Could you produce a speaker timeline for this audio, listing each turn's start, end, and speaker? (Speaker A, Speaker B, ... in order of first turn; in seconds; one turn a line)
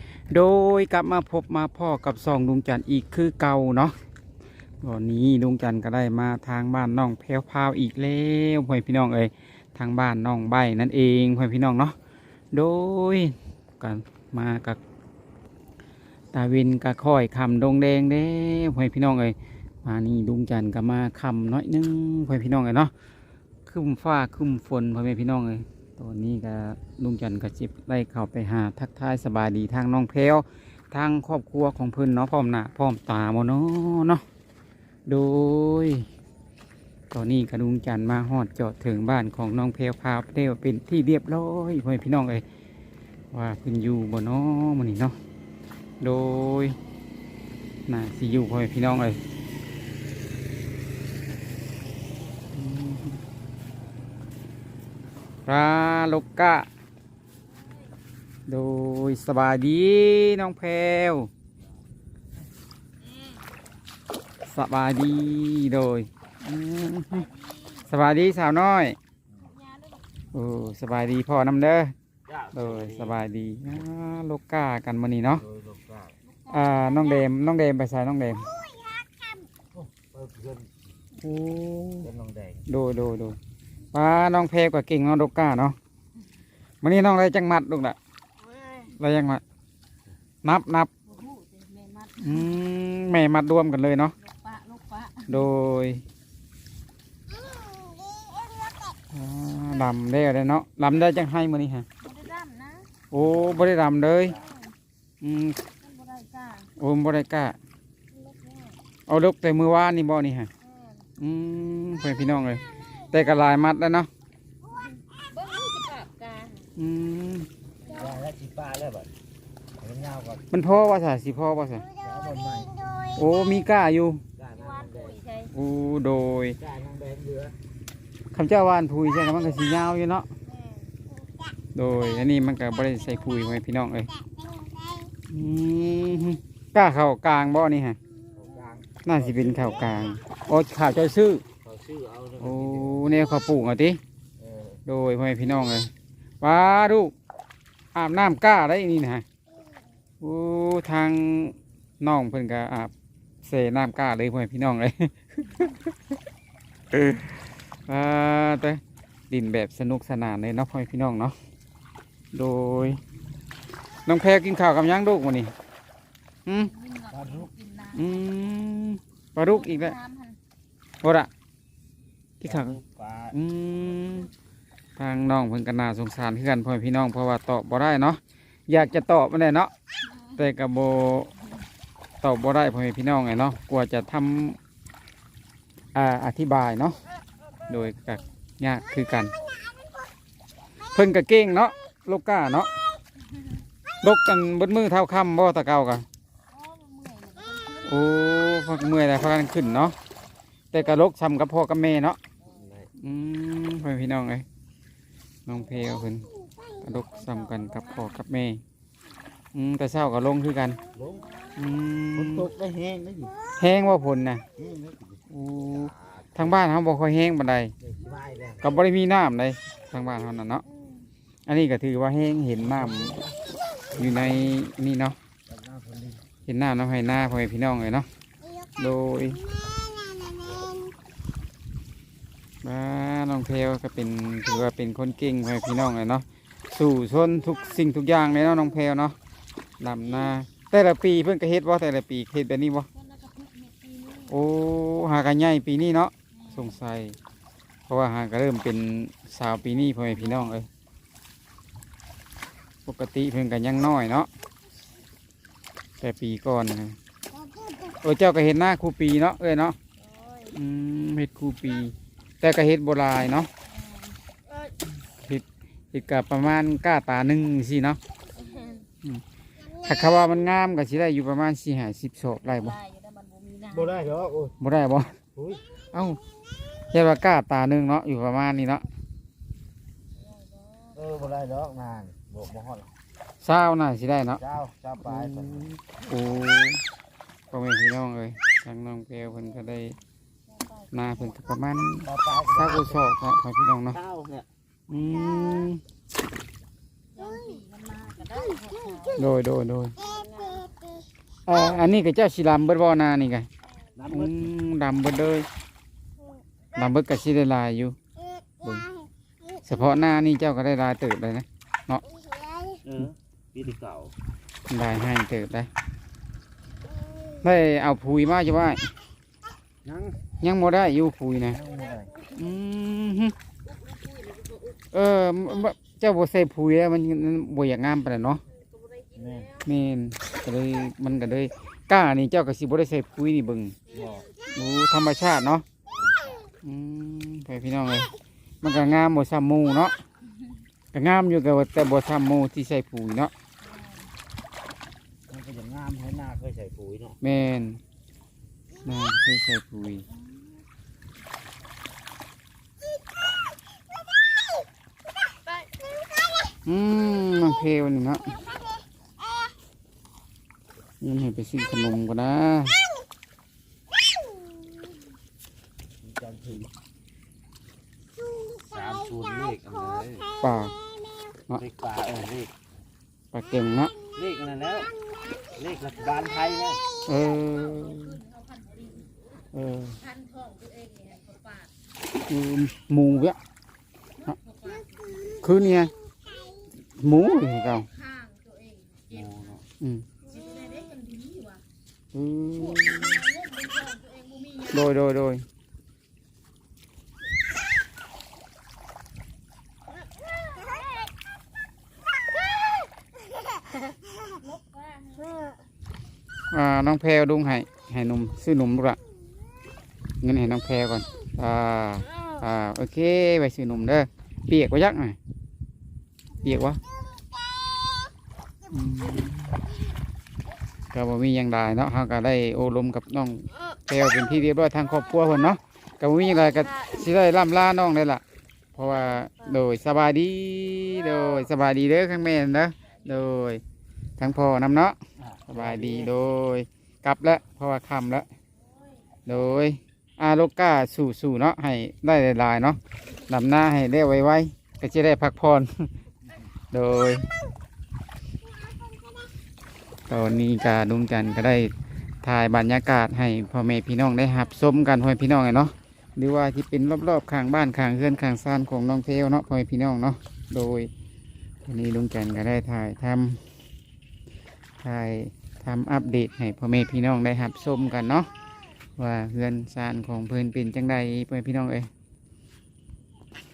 Speaker A: 0.3-3.9
Speaker A: 4.8-11.9
Speaker A: 12.5-14.8
Speaker A: 16.3-22.9
Speaker A: 23.6-34.2
Speaker A: 35.1-36.1
Speaker A: 37.1-42.4
Speaker A: 43.3-45.1
Speaker A: 46.0-46.8
Speaker A: 47.9-49.2
Speaker A: 52.5-53.2
Speaker A: 55.5-56.7
Speaker A: 58.5-61.3
Speaker A: 64.4-67.3
Speaker B: 67.3-67.8
Speaker A: 67.8-69.0
Speaker B: 69.5-70.0
Speaker A: 70.3-71.9
Speaker C: 72.3-73.1
Speaker A: 72.5-75.4
Speaker C: 75.5-76.1
Speaker B: 76.5-77.0
Speaker A: 76.5-78.5
Speaker B: 78.7-79.4
Speaker C: 79.7-80.7
Speaker A: 81.2-82.1
Speaker C: 82.0-82.6
Speaker A: 82.7-83.4
Speaker A: 83.9-85.8
Speaker A: 86.8-88.0
Speaker A: 88.9-89.4
Speaker A: 90.4-90.9
Speaker B: 91.0-92.4
Speaker A: 92.2-94.2
Speaker B: 94.2-95.3
Speaker A: 95.3-96.0
Speaker A: 99.1-101.8
Speaker B: 102.0-102.9
Speaker A: 103.1-104.4
Speaker A: 105.2-105.6
Speaker B: 105.8-106.7
Speaker A: 106.8-107.6
Speaker B: 108.3-108.7
Speaker A: 109.1-110.5
Speaker B: 110.6-111.0
Speaker A: 111.2-114.1
Speaker B: 114.7-116.6
Speaker A: 116.8-117.5
Speaker C: 117.9-119.1
Speaker C: 119.8-120.4
Speaker A: 120.5-121.9
Speaker C: 122.0-122.8
Speaker A: 123.1-124.2
Speaker C: 124.4-125.2
Speaker B: 124.5-125.5
Speaker A: 125.5-126.6
Speaker C: 126.6-127.5
Speaker A: 128.3-130.3
Speaker B: 130.6-130.8
Speaker A: 131.7-134.1
Speaker A: 135.3-138.0
Speaker C: 138.4-140.0
Speaker A: 139.0-141.4
Speaker C: 141.6-143.0
Speaker A: 142.4-144.0
Speaker C: 144.4-144.8
Speaker A: 144.8-147.1
Speaker A: 147.9-149.2
Speaker A: 150.2-152.9
Speaker A: 153.4-156.1
Speaker A: 156.9-161.3
Speaker A: 162.3-163.0
Speaker A: 164.0-165.5
Speaker A: 166.4-166.7
Speaker B: 166.8-168.0
Speaker C: 167.1-167.5
Speaker A: 167.9-170.0
Speaker B: 169.4-170.4
Speaker A: 171.0-171.3
Speaker A: 172.4-172.8
Speaker C: 172.5-173.3
Speaker A: 173.3-174.3
Speaker A: 175.0-179.7
Speaker A: 180.3-181.3
Speaker A: 182.2-184.6
Speaker A: 185.9-187.0
Speaker A: 187.7-189.3
Speaker A: 190.9-192.7
Speaker A: 194.0-196.1
Speaker B: 196.5-197.9
Speaker A: 197.8-199.9
Speaker A: 200.7-202.2
Speaker A: 202.9-204.4
Speaker A: 205.4-206.3
Speaker A: 206.8-208.6
Speaker B: 207.1-207.9
Speaker A: 209.5-210.8
Speaker C: 210.9-211.4
Speaker A: 211.5-212.5
Speaker C: 212.2-213.4
Speaker A: 213.6-214.4
Speaker C: 214.6-215.2
Speaker A: 215.3-217.7
Speaker C: 217.8-218.6
Speaker A: 218.6-220.6
Speaker A: 221.5-223.2
Speaker C: 223.0-223.3
Speaker A: 223.9-225.2
Speaker C: 225.5-226.2
Speaker A: 226.4-228.1
Speaker A: 228.8-229.4
Speaker A: 232.6-239.2
Speaker A: 239.8-242.9
Speaker B: 242.9-244.3
Speaker A: 244.3-247.2
Speaker B: 246.4-246.7
Speaker A: 247.9-250.7
Speaker A: 252.8-254.3
Speaker A: 256.0-257.0
Speaker A: 258.0-259.8
Speaker B: 260.0-260.5
Speaker A: 260.5-263.5
Speaker B: 263.8-264.1
Speaker A: 265.2-268.0
Speaker B: 268.4-268.9
Speaker A: 269.8-272.8
Speaker B: 272.6-274.1
Speaker C: 273.7-274.5
Speaker A: 274.6-275.2
Speaker C: 275.4-275.6
Speaker A: 275.9-276.2
Speaker A: 276.9-278.8
Speaker B: 280.3-281.0
Speaker C: 280.9-282.9
Speaker A: 283.4-284.4
Speaker C: 284.4-285.7
Speaker A: 285.0-286.8
Speaker A: 287.5-289.9
Speaker B: 290.6-290.9
Speaker A: 290.9-294.0
Speaker C: 292.1-293.0
Speaker C: 293.9-294.5
Speaker A: 294.9-295.8
Speaker B: 297.1-299.2
Speaker A: 299.1-300.0
Speaker B: 300.0-300.7
Speaker A: 301.5-303.5
Speaker C: 304.0-304.3
Speaker A: 304.1-305.5
Speaker A: 306.7-308.0
Speaker A: 308.6-308.9
Speaker A: 309.6-312.0
Speaker C: 312.8-314.1
Speaker A: 314.7-315.7
Speaker A: 317.4-318.9
Speaker C: 319.8-320.2
Speaker A: 320.4-321.6
Speaker C: 321.5-322.1
Speaker A: 322.3-323.3
Speaker B: 324.0-324.5
Speaker A: 324.9-328.4
Speaker C: 329.1-329.5
Speaker A: 329.6-333.8
Speaker C: 333.9-334.3
Speaker A: 334.4-335.6
Speaker C: 336.0-336.4
Speaker A: 336.6-339.9
Speaker A: 340.9-343.3
Speaker B: 343.7-344.1
Speaker C: 345.3-347.2
Speaker A: 347.2-347.8
Speaker A: 348.8-350.1
Speaker A: 356.6-358.3
Speaker A: 361.0-362.8
Speaker C: 366.0-366.7
Speaker C: 368.6-370.3
Speaker A: 370.4-370.7
Speaker C: 371.6-372.5
Speaker A: 373.3-373.9
Speaker C: 374.1-374.9
Speaker C: 375.5-376.8
Speaker A: 377.1-378.2
Speaker B: 377.4-379.1
Speaker A: 379.5-380.0
Speaker B: 380.0-381.7
Speaker A: 382.3-383.4
Speaker B: 384.2-385.4
Speaker A: 385.4-385.9
Speaker A: 386.9-387.9
Speaker B: 387.9-389.4
Speaker C: 389.1-389.6
Speaker A: 389.8-390.1
Speaker B: 390.2-391.6
Speaker A: 392.1-393.3
Speaker B: 392.7-394.9
Speaker A: 394.6-395.4
Speaker B: 404.3-405.4
Speaker A: 406.5-409.0
Speaker A: 410.2-415.2
Speaker A: 416.4-416.8
Speaker A: 418.7-419.6
Speaker A: 420.9-428.2
Speaker A: 428.7-433.6
Speaker A: 434.2-438.3
Speaker C: 435.4-436.1
Speaker A: 439.2-445.9
Speaker A: 446.7-447.3
Speaker A: 450.1-451.7
Speaker A: 452.2-460.9
Speaker A: 461.6-463.4
Speaker A: 464.8-468.3
Speaker A: 469.0-471.9